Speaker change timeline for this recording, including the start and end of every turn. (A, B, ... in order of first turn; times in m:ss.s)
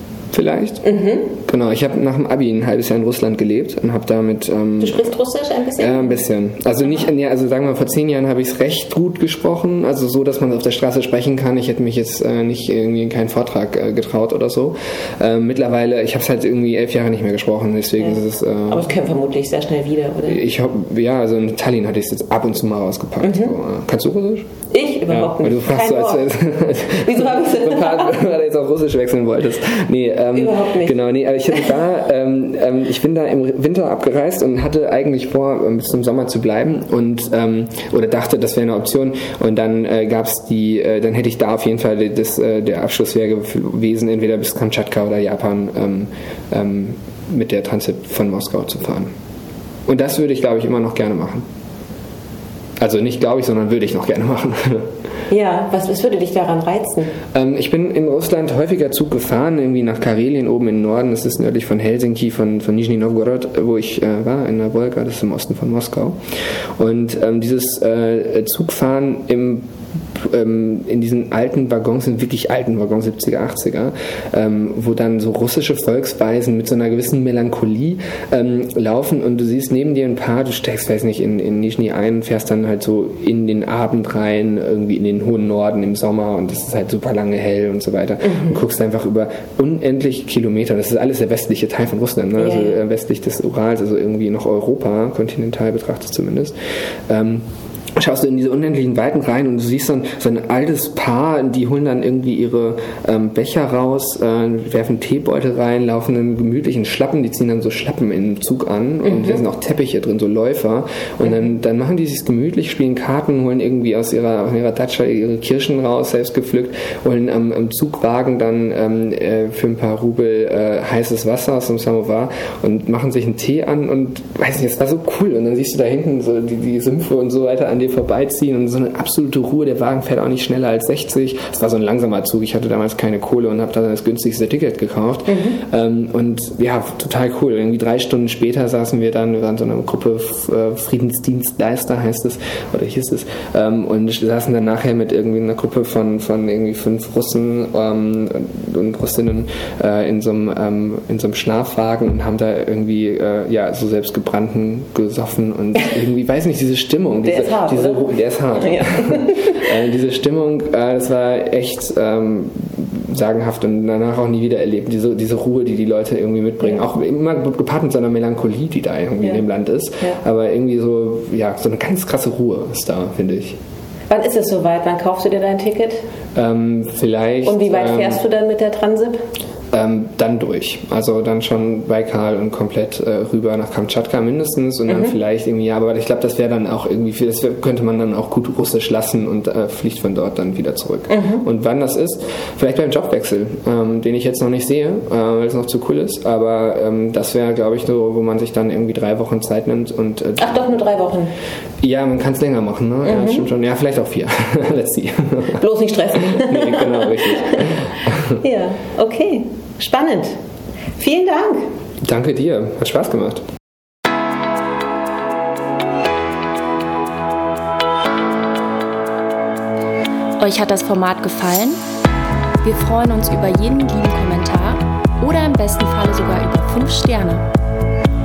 0:00.3-0:05.1 A
0:00.8-0:01.3 B
0:04.8-0:06.2 B
0:05.8-0:18.9 A
0:18.0-0:20.4 B
0:20.3-0:24.5 A
0:23.2-0:23.5 B
0:24.7-0:26.3 B
0:25.1-0:49.1 A
0:26.9-0:28.2 B
0:30.3-0:31.0 B
0:49.9-0:51.4 A
0:52.8-0:54.9 A
0:55.3-0:57.2 B
0:57.3-1:06.2 A
1:06.8-1:36.5 A
1:37.1-2:53.6 A
1:49.0-1:49.4 B
2:15.3-2:15.6 B
2:37.2-2:38.0 B
2:38.6-2:39.6 B
2:54.1-2:56.0 B
2:56.3-2:58.2 A
2:57.4-2:59.2 B
2:59.7-3:20.8 A
3:04.9-3:05.1 B
3:11.1-3:11.4 B
3:20.4-3:21.3 B
3:21.8-3:25.6 A
3:23.0-3:23.4 B
3:25.6-3:27.8 B
3:26.1-3:28.4 A
3:28.4-3:30.4 B
3:31.0-3:31.7 B
3:32.0-3:33.4 A
3:40.4-3:41.8 C
3:42.6-3:47.5 C